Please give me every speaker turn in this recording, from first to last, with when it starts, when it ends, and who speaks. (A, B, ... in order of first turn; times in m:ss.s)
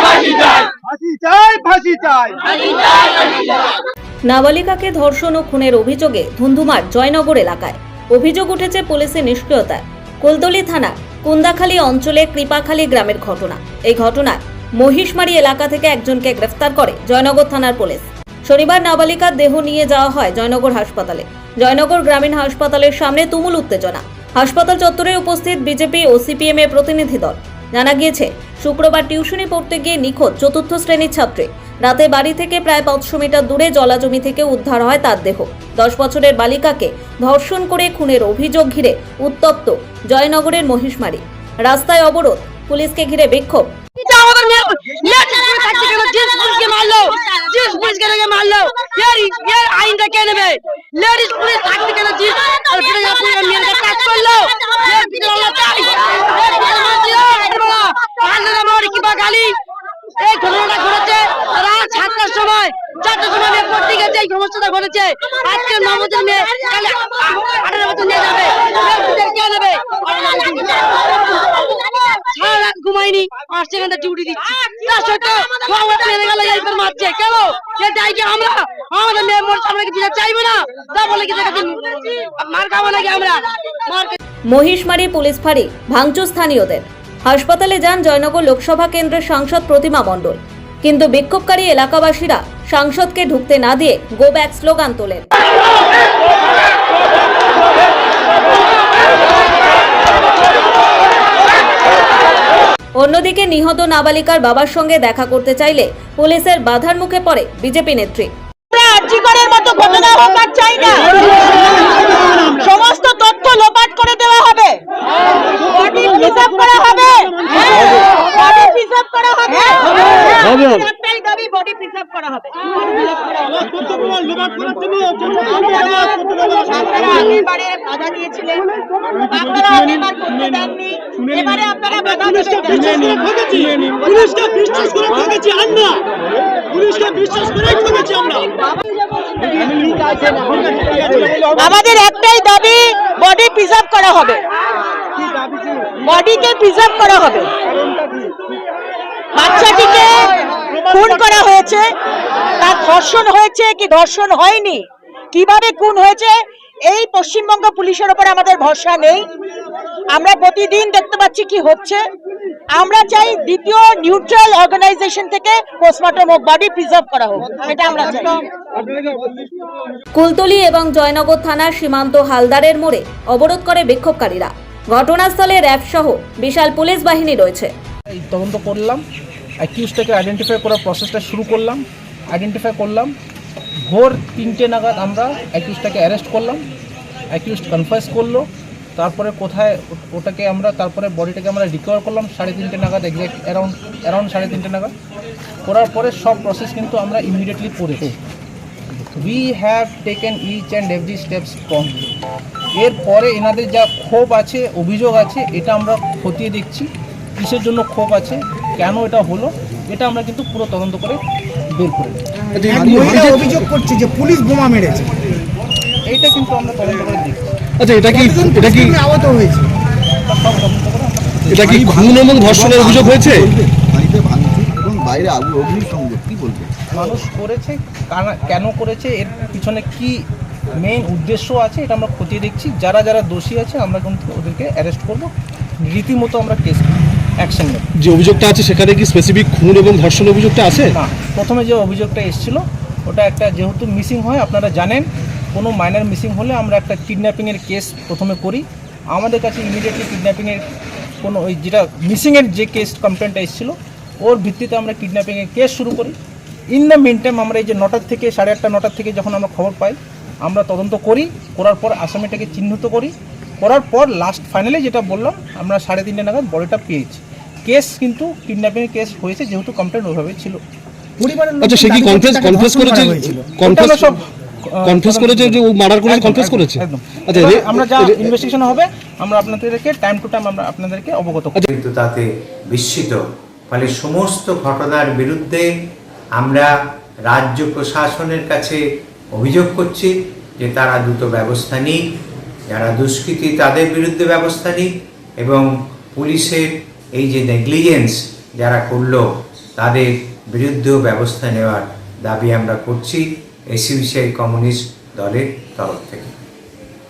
0:04.3-0:43.7 A
0:44.0-0:59.6 B
1:00.2-1:24.2 B
1:24.5-1:35.2 A
1:43.0-1:48.3 A
1:48.7-1:54.8 C
1:55.7-2:15.8 C
2:04.0-2:05.3 D
2:14.0-2:16.0 D
2:16.7-2:18.5 D
2:21.5-2:24.4 C
2:26.0-2:27.5 C
2:29.4-2:31.9 C
2:32.6-2:39.3 C
2:40.1-2:42.0 C
2:42.7-2:48.4 C
2:50.2-2:57.7 A
2:58.1-2:59.0 E
2:59.6-3:03.1 E
3:03.9-3:06.6 E
3:07.3-3:14.9 E
3:15.6-3:18.2 E
3:19.0-3:22.2 E
3:22.8-3:31.2 E
3:31.7-3:32.2 E
3:32.5-3:33.5 F
3:32.6-3:35.1 G
3:32.7-3:33.5 H
3:36.1-3:37.5 E
3:37.8-3:39.0 F
3:38.1-3:39.6 G
3:40.3-3:41.5 E
3:41.5-3:43.5 F
3:41.5-3:46.8 H
3:46.9-3:55.3 E
3:55.8-3:57.9 E
3:58.0-4:00.9 F
4:00.7-4:10.6 E
4:11.2-4:16.2 E
4:16.7-4:30.6 E
4:31.2-4:33.5 G
4:31.6-4:34.1 F
4:33.6-4:41.6 E
4:34.9-4:38.3 F
4:41.7-4:45.7 I
4:46.4-4:46.7 I
4:47.3-4:48.8 I
4:49.4-4:52.0 I
4:52.7-4:54.9 I
4:55.4-4:59.2 I
4:59.8-5:06.4 I